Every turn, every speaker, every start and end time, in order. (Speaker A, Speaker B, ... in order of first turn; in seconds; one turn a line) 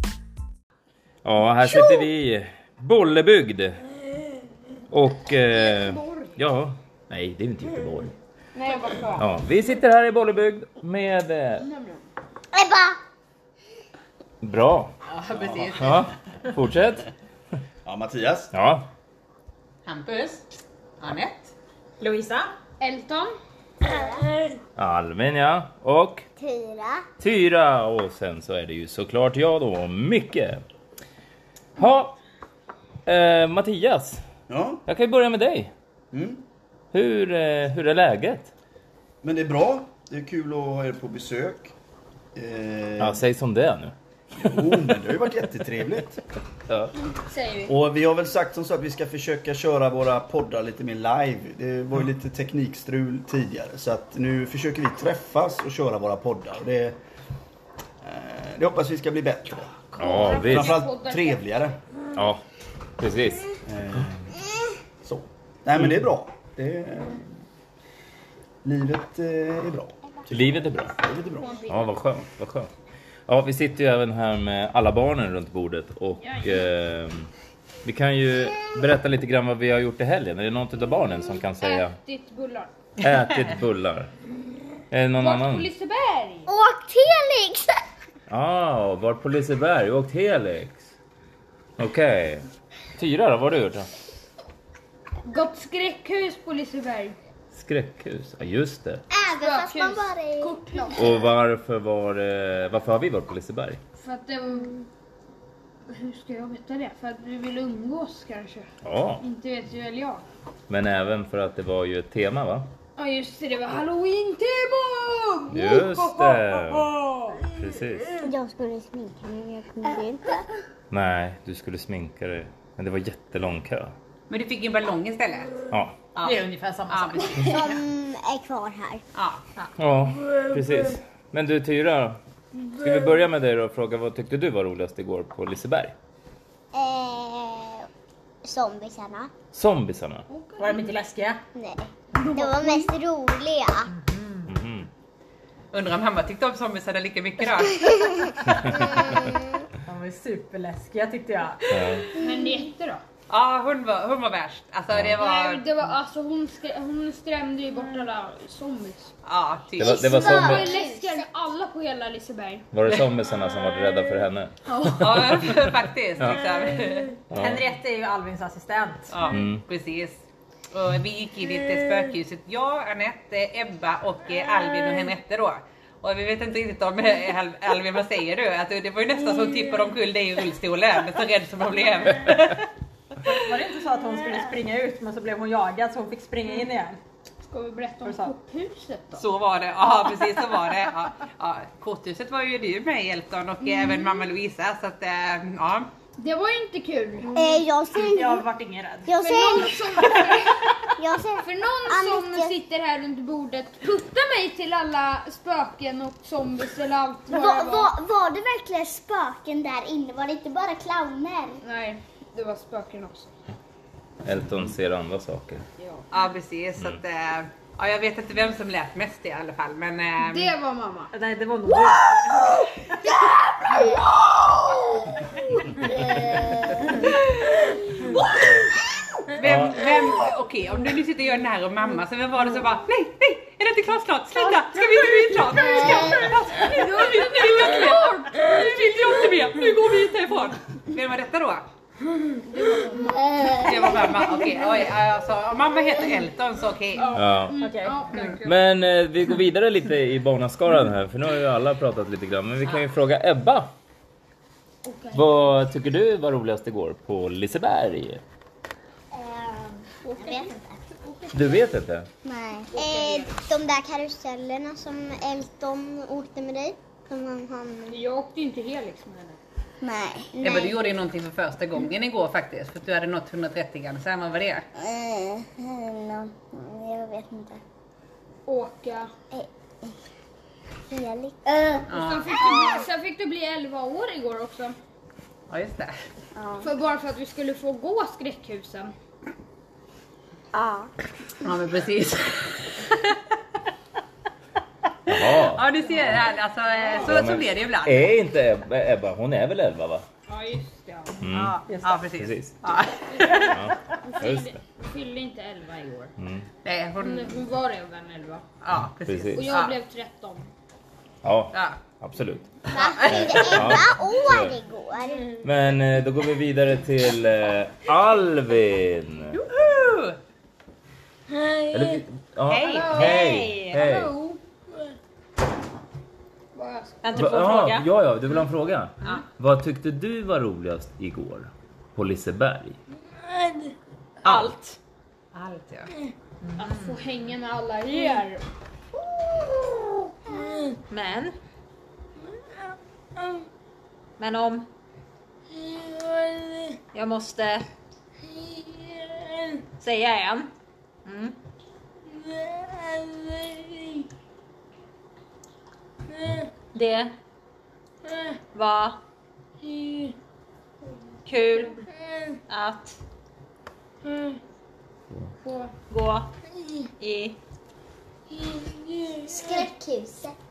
Speaker A: 1.2-3.8
Speaker A: 4.9-8.1
Speaker B: 5.7-6.3
Speaker B: 8.6-9.3
Speaker A: 9.2-11.7
Speaker B: 11.6-12.0
Speaker C: 12.5-13.0
Speaker A: 14.4-14.9
Speaker D: 15.1-16.0
Speaker A: 15.7-17.1
Speaker E: 17.9-18.5
Speaker A: 18.5-18.9
Speaker D: 19.9-20.4
Speaker D: 21.0-21.5
Speaker F: 22.0-22.5
Speaker B: 22.8-23.4
Speaker C: 23.9-24.2
Speaker A: 24.8-26.3
Speaker C: 26.4-27.1
Speaker A: 27.2-30.6
Speaker A: 31.8-32.2
Speaker A: 33.1-34.2
Speaker E: 34.5-34.8
Speaker A: 34.9-35.7
Speaker E: 36.1-36.4
Speaker A: 36.9-38.5
Speaker E: 39.2-41.7
Speaker E: 42.3-43.2
Speaker A: 43.0-44.6
Speaker E: 44.4-46.2
Speaker B: 47.3-47.7
Speaker E: 47.7-57.0
Speaker E: 58.0-61.8
Speaker A: 60.0-60.8
Speaker B: 60.0-61.4
Speaker A: 62.1-62.4
Speaker A: 63.0-63.5
Speaker E: 63.7-64.2
Speaker E: 65.0-67.3
Speaker E: 68.6-71.6
Speaker A: 70.3-71.0
Speaker B: 71.4-71.9
Speaker A: 71.7-72.7
Speaker A: 73.3-77.3
Speaker A: 77.8-82.0
Speaker B: 81.6-82.7
Speaker A: 83.0-84.1
Speaker A: 84.9-85.7
Speaker B: 85.2-86.5
Speaker C: 86.5-87.8
Speaker A: 88.3-90.8
Speaker A: 91.8-92.5
Speaker A: 93.0-93.9
Speaker B: 95.3-97.2
Speaker A: 97.5-99.0
Speaker C: 99.1-101.1
Speaker B: 99.3-101.2
Speaker A: 100.9-103.8
Speaker B: 104.0-104.8
Speaker B: 105.9-108.7
Speaker A: 108.8-109.2
Speaker B: 109.2-110.2
Speaker A: 110.7-112.7
Speaker B: 113.0-117.4
Speaker A: 115.5-116.9
Speaker A: 117.5-118.2
Speaker C: 118.2-120.4
Speaker A: 120.9-123.9
Speaker D: 124.3-127.8
Speaker A: 125.7-126.1
Speaker F: 126.2-127.6
Speaker C: 127.4-129.0
Speaker D: 129.2-129.4
Speaker A: 129.8-132.2
Speaker A: 132.7-135.9
Speaker C: 136.7-137.9
Speaker C: 138.4-139.3
Speaker A: 139.5-140.2
Speaker B: 140.3-140.9
Speaker F: 140.6-141.4
Speaker C: 141.5-143.9
Speaker B: 142.2-142.9
Speaker F: 143.9-144.5
Speaker A: 144.5-144.9
Speaker D: 145.7-147.9
Speaker A: 148.6-149.2
Speaker F: 149.9-152.0
Speaker A: 151.7-152.1
Speaker B: 152.2-153.0
Speaker D: 153.3-155.8
Speaker A: 154.9-155.2
Speaker B: 155.2-159.1
Speaker D: 159.2-160.0
Speaker A: 159.8-160.8
Speaker C: 159.8-161.2
Speaker B: 160.1-162.7
Speaker A: 162.7-165.6
Speaker D: 164.8-167.1
Speaker A: 167.3-167.7
Speaker F: 167.4-169.2
Speaker D: 169.1-170.2
Speaker A: 169.3-169.6
Speaker D: 170.7-182.7
Speaker F: 183.3-187.0
Speaker B: 187.4-189.2
Speaker F: 188.0-188.3
Speaker D: 189.2-195.9
Speaker B: 196.2-197.4
Speaker C: 197.3-198.5
Speaker F: 198.0-199.1
Speaker C: 199.1-200.2
Speaker B: 199.2-200.8
Speaker C: 201.0-202.5
Speaker B: 201.4-207.9
Speaker C: 207.3-211.6
Speaker B: 211.6-213.3
Speaker A: 214.2-215.6
Speaker B: 215.8-216.1
Speaker D: 216.1-220.5
Speaker B: 220.2-221.1
Speaker F: 221.1-222.6
Speaker D: 229.4-241.7
Speaker A: 229.4-229.8
Speaker B: 236.6-238.5
Speaker B: 242.4-243.7
Speaker D: 243.5-247.2
Speaker B: 247.0-248.5
Speaker A: 247.1-247.6
Speaker F: 247.6-248.0
Speaker A: 248.4-253.7
Speaker B: 254.8-255.2
Speaker A: 255.1-258.2
Speaker C: 259.2-260.7
Speaker B: 260.1-260.5
Speaker B: 261.0-261.4
Speaker A: 261.3-262.1
Speaker C: 262.2-268.0
Speaker B: 262.7-263.4
Speaker B: 267.9-269.4
Speaker C: 269.8-270.8
Speaker D: 270.4-274.7
Speaker C: 274.8-277.6
Speaker B: 278.5-279.1
Speaker C: 279.3-279.9
Speaker C: 280.9-281.9
Speaker B: 281.9-284.8
Speaker D: 281.9-282.4
Speaker D: 285.5-285.9
Speaker C: 286.4-286.7
Speaker B: 286.6-288.9
Speaker C: 290.5-290.9
Speaker D: 291.4-293.0
Speaker A: 295.1-295.7
Speaker D: 295.4-298.1
Speaker A: 297.0-300.1
Speaker B: 300.3-301.2
Speaker A: 301.2-302.6
Speaker D: 301.3-303.4
Speaker F: 301.7-302.0
Speaker B: 303.1-306.1
Speaker F: 303.2-303.6
Speaker A: 303.4-304.6
Speaker A: 306.2-306.5
Speaker D: 306.6-307.4
Speaker B: 307.0-308.4
Speaker D: 308.6-309.7
Speaker A: 309.1-309.5
Speaker B: 309.4-310.5
Speaker A: 311.2-312.5
Speaker D: 311.5-311.8
Speaker C: 312.7-315.4
Speaker D: 312.8-313.5
Speaker A: 313.1-314.5
Speaker A: 315.4-319.4
Speaker D: 319.3-320.2
Speaker A: 321.7-324.2
Speaker D: 322.5-323.0
Speaker B: 322.7-324.4
Speaker F: 322.9-323.9
Speaker B: 326.6-327.4
Speaker F: 327.0-327.9
Speaker A: 327.2-332.8
Speaker F: 334.2-334.8
Speaker D: 335.3-335.9
Speaker F: 336.5-337.0
Speaker B: 336.6-338.4
Speaker F: 340.9-341.4
Speaker F: 344.2-344.7
Speaker F: 346.9-347.7
Speaker F: 349.8-350.5
Speaker F: 351.1-351.4
Speaker F: 356.7-357.1
Speaker F: 358.5-359.0
Speaker B: 359.7-360.1
Speaker F: 361.3-361.8
Speaker F: 362.5-363.0
Speaker B: 364.1-364.4
Speaker B: 365.4-365.7
Speaker F: 365.9-366.3
Speaker F: 367.0-367.4
Speaker B: 369.1-369.4
Speaker C: 369.3-370.4